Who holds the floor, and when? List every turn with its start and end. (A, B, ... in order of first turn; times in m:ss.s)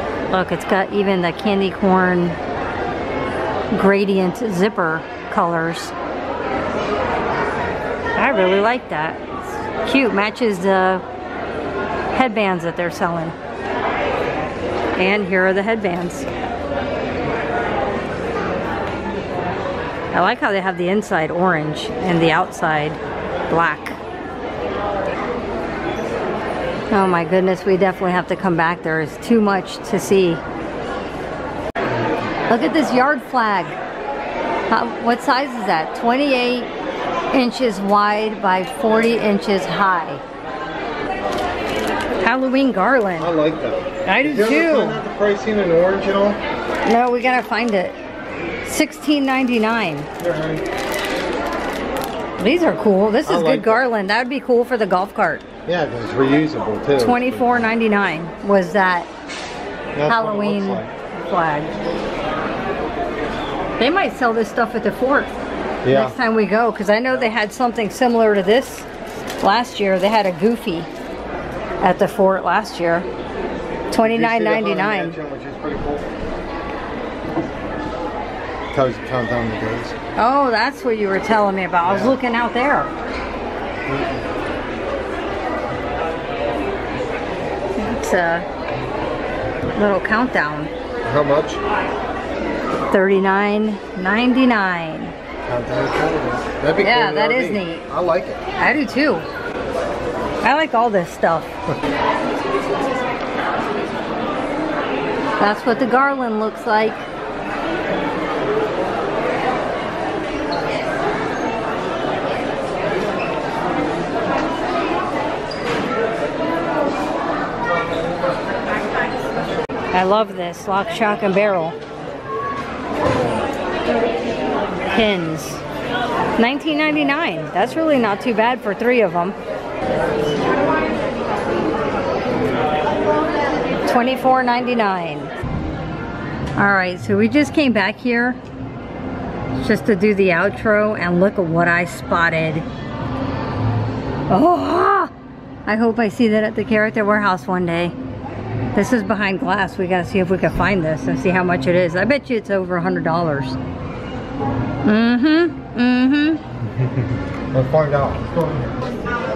0:00.3-0:02.4 A
0:03.7-0:05.9 A
0:08.2-0:09.2 A
0:09.8-0:11.0 A
0:12.1-0:13.4 A
0:15.0-0:16.3 A
0:20.1-0:24.0 A
0:26.9-0:30.4 A
0:32.5-0:33.8 A
0:34.7-0:36.7 A
0:37.3-0:40.2 A
0:42.2-0:43.3 A
0:43.2-0:46.4 B
0:44.1-0:45.0 A
0:46.9-0:48.0 A
0:48.6-0:50.1 A
0:50.2-0:50.6 B
0:52.4-0:55.4 A
0:53.2-0:53.9 B
0:55.7-0:57.7 B
0:57.0-0:59.1 A
0:59.9-1:00.9 B
1:00.1-1:01.7 A
1:03.8-1:05.3 A
1:05.8-1:06.2 B
1:05.9-1:08.9 A
1:09.4-1:10.9 A
1:11.8-1:13.1 A
1:13.9-1:15.2 A
1:13.9-1:16.1 B
1:18.7-1:20.0 B
1:20.2-1:22.9 A
1:21.8-1:22.2 B
1:23.9-1:24.2 B
1:27.8-1:28.5 A
1:29.8-1:30.7 A
1:31.0-1:31.6 B
1:32.9-1:35.1 A
1:35.4-1:38.4 B
1:36.8-1:37.9 A
1:38.6-1:39.3 A
1:40.4-1:41.5 A
1:45.4-1:47.0 A
1:59.9-2:01.8 A
2:04.9-2:05.6 A
2:06.4-2:09.4 A
2:13.9-2:15.3 A
2:16.6-2:18.4 A
2:19.6-2:22.7 A
2:24.3-2:25.1 A
2:25.7-2:28.0 A
2:28.7-2:33.6 A
2:34.8-2:36.4 A
2:36.6-2:38.8 B